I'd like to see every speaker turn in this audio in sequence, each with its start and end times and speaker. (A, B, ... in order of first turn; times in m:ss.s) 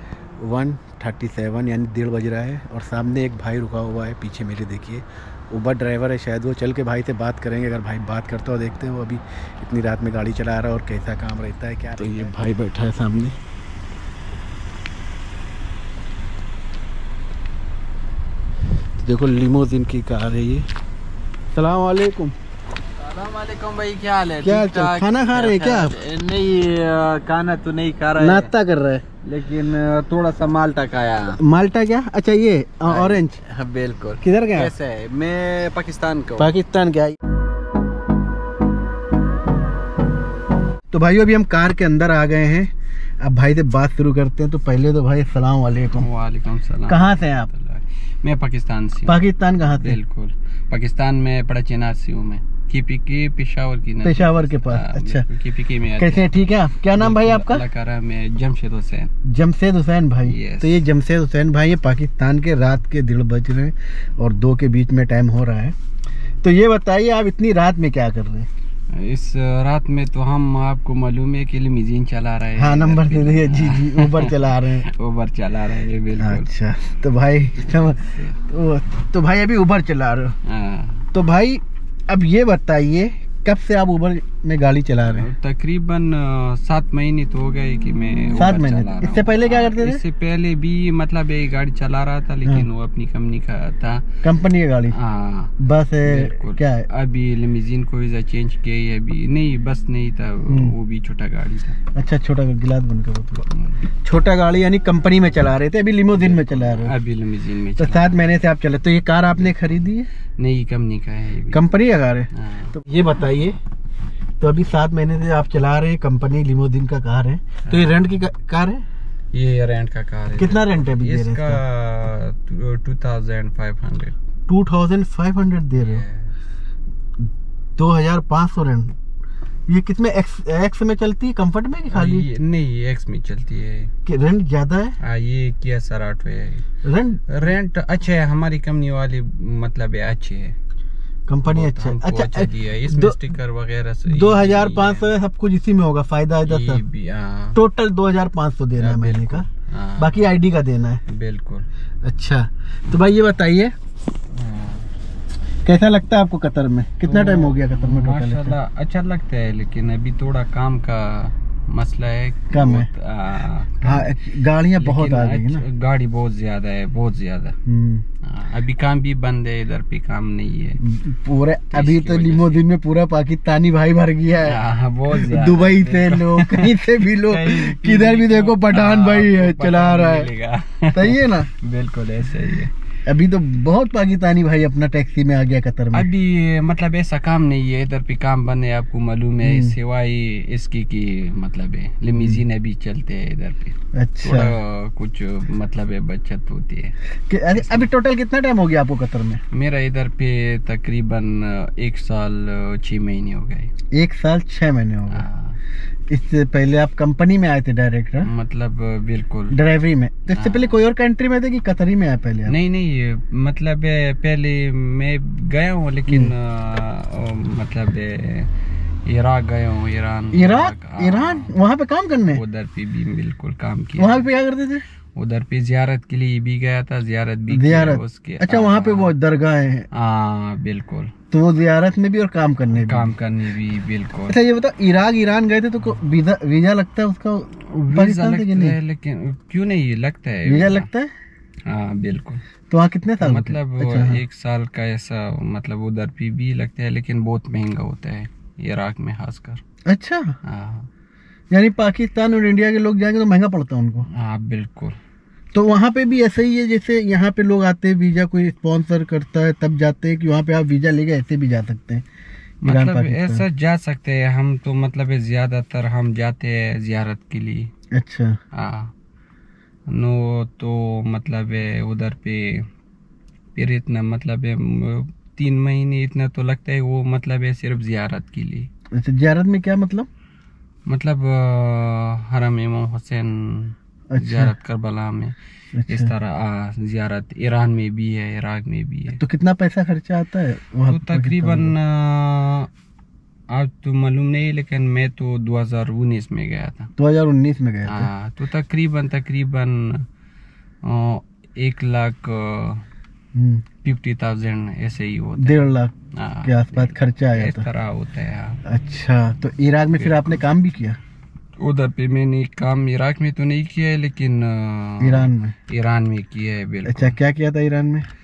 0:00.4-0:13.4 A
0:19.0-0:20.7 A
0:21.5-0:22.3 A
0:23.0-0:28.5 B
0:24.4-0:26.0 A
0:28.2-0:29.0 A
0:29.2-0:31.4 B
0:31.4-0:33.4 A
0:32.8-0:36.5 B
0:34.2-0:34.7 A
0:36.4-0:37.2 A
0:40.9-0:42.7 A
0:43.2-0:46.1 A
0:46.0-0:56.4 B
0:46.9-0:47.5 A
0:49.1-0:50.0 A
0:54.0-0:55.2 A
0:56.0-0:57.6 A
0:56.9-0:59.1 B
0:59.2-1:05.7 A
1:00.2-1:00.8 B
1:06.4-1:08.5 A
1:08.9-1:16.5 B
1:12.6-1:14.8 A
1:16.2-1:20.3 A
1:17.6-1:18.3 B
1:20.4-1:21.1 B
1:21.1-1:25.3 A
1:25.0-1:34.1 B
1:28.3-1:30.0 A
1:34.2-1:35.0 A
1:34.9-1:41.8 B
1:35.6-1:36.9 A
1:40.5-1:40.7 A
1:41.9-1:43.5 A
1:43.5-1:43.8 B
1:44.0-1:46.9 A
1:46.1-1:48.2 B
1:47.8-1:50.1 A
1:50.4-1:51.7 B
1:51.5-1:53.6 A
1:52.3-1:52.7 B
1:54.4-1:58.8 A
1:57.6-1:58.1 B
1:59.3-2:04.1 B
2:00.4-2:01.6 A
2:04.5-2:06.0 A
2:05.8-2:06.3 B
2:07.8-2:08.9 A
2:09.7-2:12.3 A
2:11.9-2:13.9 B
2:14.0-2:15.0 A
2:15.0-2:16.6 B
2:16.8-2:17.3 A
2:17.3-2:20.5 B
2:21.3-2:23.2 A
2:21.4-2:25.1 B
2:24.1-2:26.8 A
2:26.4-2:27.6 B
2:27.5-2:29.5 A
2:28.8-2:30.3 B
2:30.0-2:31.0 A
2:31.1-2:31.7 B
2:32.0-2:33.7 A
2:34.3-2:34.9 B
2:35.6-2:38.6 A
2:37.0-2:44.1 B
2:42.5-2:42.9 A
2:43.8-2:45.6 A
2:44.8-2:47.6 B
2:47.6-2:48.0 A
2:48.2-2:50.8 B
2:50.8-3:00.3 A
2:51.7-2:52.6 B
2:54.4-3:02.7 B
3:00.9-3:01.5 A
3:03.0-3:06.1 A
3:05.9-3:16.9 B
3:09.4-3:09.7 A
3:13.9-3:14.5 A
3:17.3-3:19.4 A
3:17.6-3:17.9 B
3:19.5-3:23.7 B
3:23.9-3:25.2 A
3:25.1-3:25.6 B
3:26.1-3:28.3 A
3:28.2-3:29.6 B
3:29.5-3:32.5 A
3:30.3-3:30.8 B
3:32.5-3:38.5 B
3:39.0-3:41.6 B
3:40.3-3:42.4 A
3:42.2-3:44.3 B
3:44.0-3:44.8 A
3:45.1-3:49.1 B
3:47.5-3:49.9 A
3:49.9-3:51.1 B
3:51.3-3:53.1 A
3:52.7-3:54.4 B
3:54.3-3:58.8 A
3:57.6-4:00.9 B
4:00.4-4:01.1 A
4:01.7-4:02.4 B
4:02.7-4:04.2 A
4:03.2-4:09.6 B
4:09.8-4:10.3 A
4:10.4-4:10.9 B
4:11.5-4:14.1 A
4:14.1-4:15.0 B
4:15.5-4:22.0 A
4:22.6-4:27.7 B
4:22.6-4:23.4 A
4:27.9-4:28.4 A
4:28.5-4:28.9 B
4:29.9-4:32.6 B
4:33.5-4:38.7 B
4:38.9-4:40.1 A
4:40.9-4:45.3 B
4:44.1-4:44.5 A
4:45.7-4:46.1 A
4:45.9-4:49.2 B
4:49.1-4:51.7 A
4:50.9-4:52.7 B
4:53.5-4:56.9 B
4:57.0-4:58.1 A
4:57.8-5:00.1 B
5:00.8-5:02.8 B
5:03.3-5:03.6 A
5:03.8-5:08.6 B
5:05.4-5:05.9 A
5:06.4-5:07.7 A
5:08.6-5:11.0 A
5:09.9-5:10.4 B
5:11.6-5:17.2 B
5:15.0-5:15.5 A
5:16.8-5:18.0 A